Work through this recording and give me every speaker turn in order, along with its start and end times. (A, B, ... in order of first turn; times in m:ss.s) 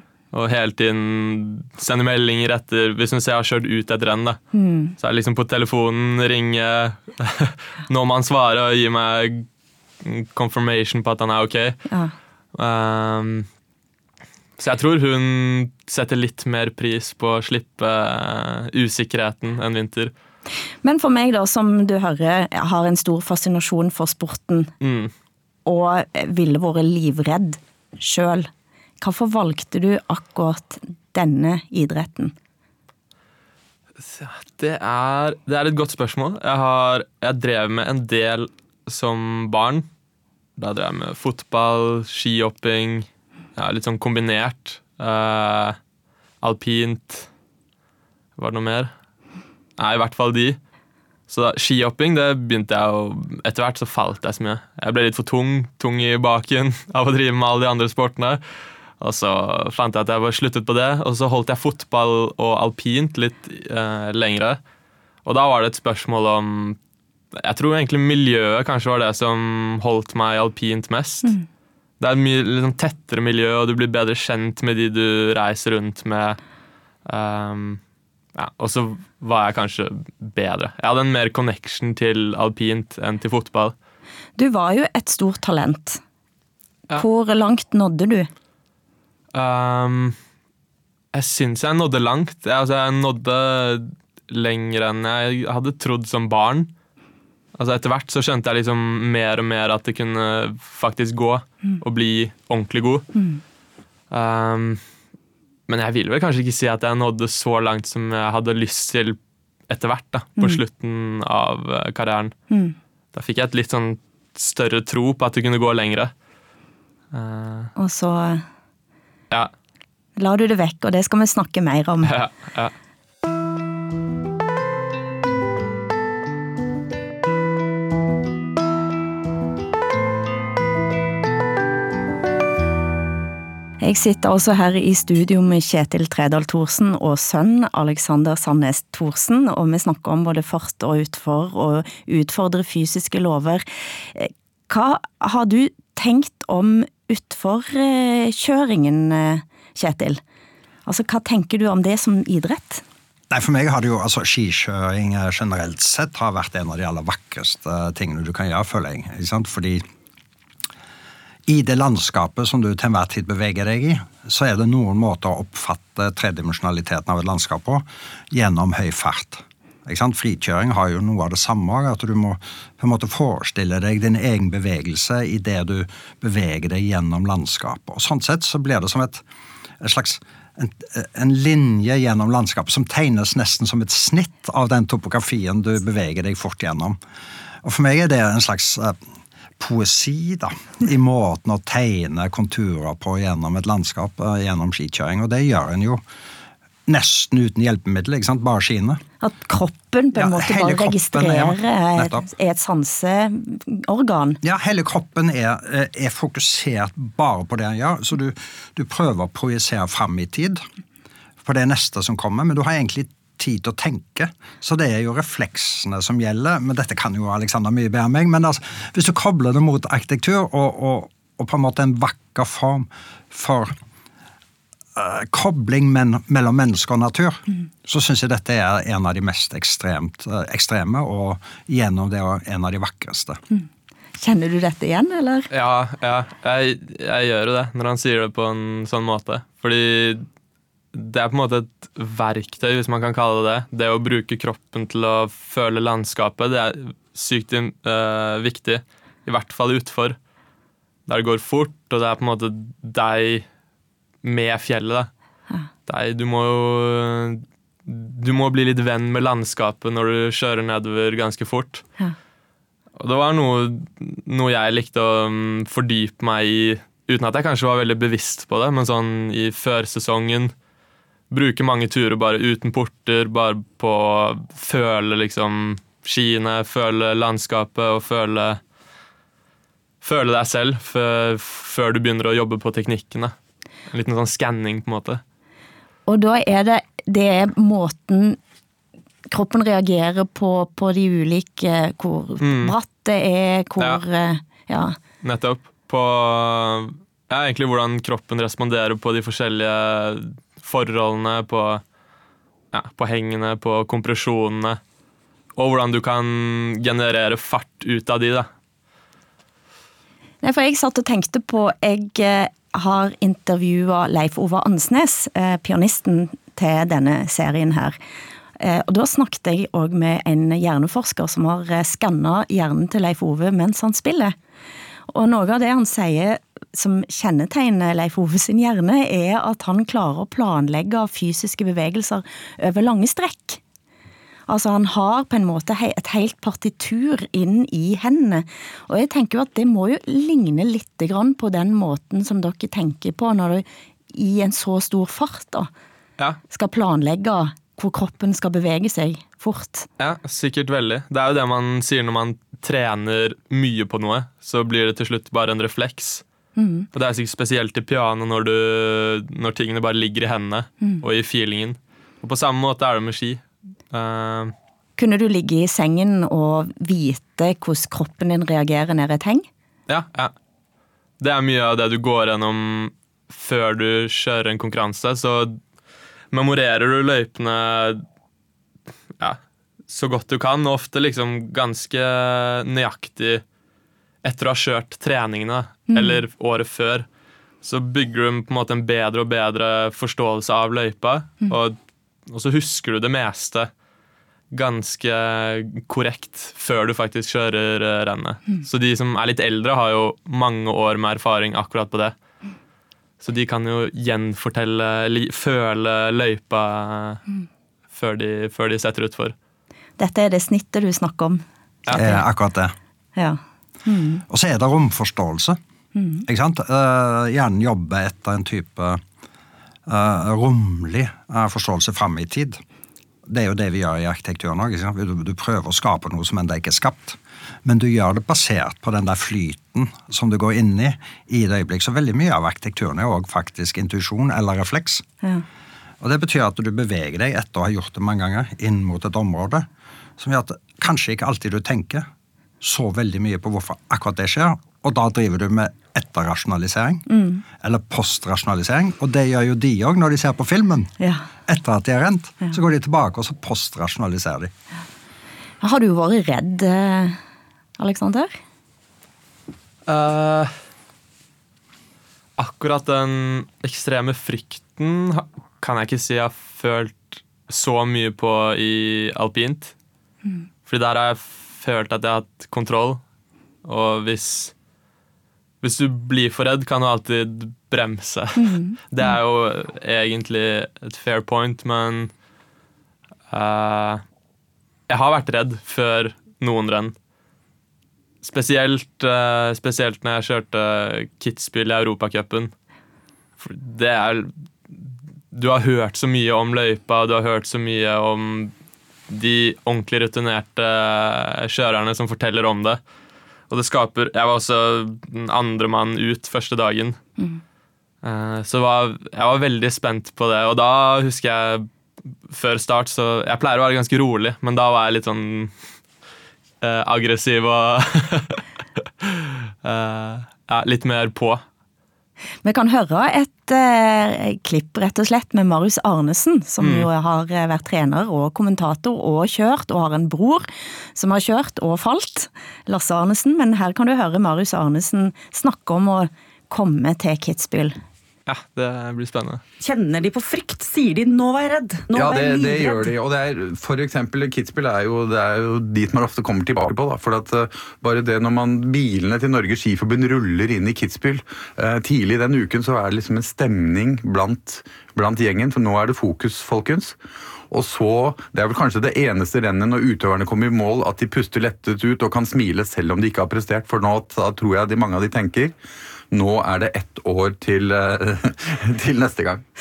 0:00.3-0:04.4 A
0:04.5-0:05.0 B
0:05.0-0:09.5 A
0:10.0-0:11.8 A
0:12.6-0:13.5 A
0:14.6-0:20.1 A
0:20.8-0:24.7 B
0:24.8-0:25.1 A
0:25.6-0:28.5 B
0:29.0-0:32.3 B
0:34.0-0:39.9 A
0:40.6-0:45.8 A
0:46.4-0:47.3 A
0:48.4-0:48.9 A
0:49.8-0:50.6 A
0:51.3-0:58.4 A
0:59.0-1:04.6 A
1:05.2-1:06.8 A
1:07.4-1:11.3 A
1:12.0-1:16.4 A
1:17.0-1:17.8 A
1:18.4-1:23.8 A
1:24.4-1:26.0 B
1:27.0-1:28.3 B
1:29.3-1:30.2 A
1:31.1-1:36.7 A
1:37.6-1:43.1 A
1:43.1-1:43.4 B
1:44.1-1:44.8 A
1:45.7-1:49.2 A
1:49.7-1:52.3 A
1:52.5-1:52.8 B
1:53.1-1:56.1 A
1:57.1-1:57.7 A
1:57.8-1:58.4 B
2:00.2-2:02.1 B
2:02.0-2:02.7 A
2:13.8-2:30.2 B
2:30.9-2:32.8 B
2:33.3-2:39.8 C
2:41.5-2:59.2 C
2:59.8-3:07.0 C
3:07.6-3:09.0 C
3:09.6-3:16.0 C
3:16.9-3:19.0 C
3:19.2-3:24.4 B
3:20.1-3:22.3 C
3:24.4-3:30.6 C
3:31.4-3:43.8 C
3:45.0-3:53.4 C
3:54.2-3:55.5 B
3:55.5-4:00.2 A
4:00.9-4:10.2 A
4:11.1-4:13.5 A
4:14.2-4:15.1 A
4:15.9-4:21.8 A
4:23.0-4:30.5 A
4:31.3-4:38.6 A
4:40.0-4:43.3 A
4:43.9-4:45.2 A
4:46.1-4:48.4 B
4:49.3-4:55.0 B
4:52.4-4:52.7 A
4:55.2-5:01.8 A
5:02.7-5:04.8 A
5:05.6-5:08.5 A
5:10.4-5:18.0 B
5:18.6-5:24.4 B
5:25.1-5:33.6 B
5:34.5-5:45.7 B
5:46.5-5:49.9 B
5:50.0-5:56.2 A
5:56.6-5:56.9 B
5:56.9-6:04.5 A
6:05.0-6:09.5 B
6:09.9-6:10.3 A
6:11.2-6:15.6 A
6:16.3-6:18.0 A
6:19.2-6:23.4 A
6:24.2-6:27.0 A
6:25.9-6:26.2 B
6:27.6-6:31.8 A
6:32.3-6:33.7 A
6:34.5-6:42.1 A
6:43.2-6:47.2 A
6:47.9-6:49.4 A
6:50.0-6:52.2 B
6:51.9-6:52.7 C
6:53.2-6:54.2 B
6:54.3-6:55.6 C
6:56.0-6:56.2 B
6:56.2-6:59.0 C
6:59.9-7:02.6 C
7:03.3-7:15.0 C
7:16.0-7:19.7 C
7:20.2-7:22.1 C
7:22.6-7:27.0 C
7:27.1-7:27.4 B
7:27.6-7:30.9 C
7:31.0-7:31.2 B
7:31.5-7:34.5 C
7:35.6-7:37.2 B
7:37.8-7:38.4 B
7:39.9-7:40.6 A
7:42.4-7:49.7 A
7:50.7-7:53.0 A
7:53.6-7:54.5 A
7:55.6-8:02.1 A
7:58.4-7:59.2 B
8:03.3-8:04.0 A
8:04.9-8:06.9 A
8:08.2-8:12.5 A
8:13.4-8:14.3 A
8:15.3-8:18.5 A
8:19.1-8:22.8 A
8:23.5-8:27.0 A
8:28.0-8:31.7 A
8:32.2-8:35.5 A
8:36.6-8:38.4 A
8:39.0-8:41.4 A
8:42.4-8:57.8 B
8:46.6-8:46.9 A
8:58.3-8:59.4 A
8:59.6-9:02.9 D
9:01.9-9:17.0 E
9:17.5-9:25.5 E
9:26.1-9:29.4 E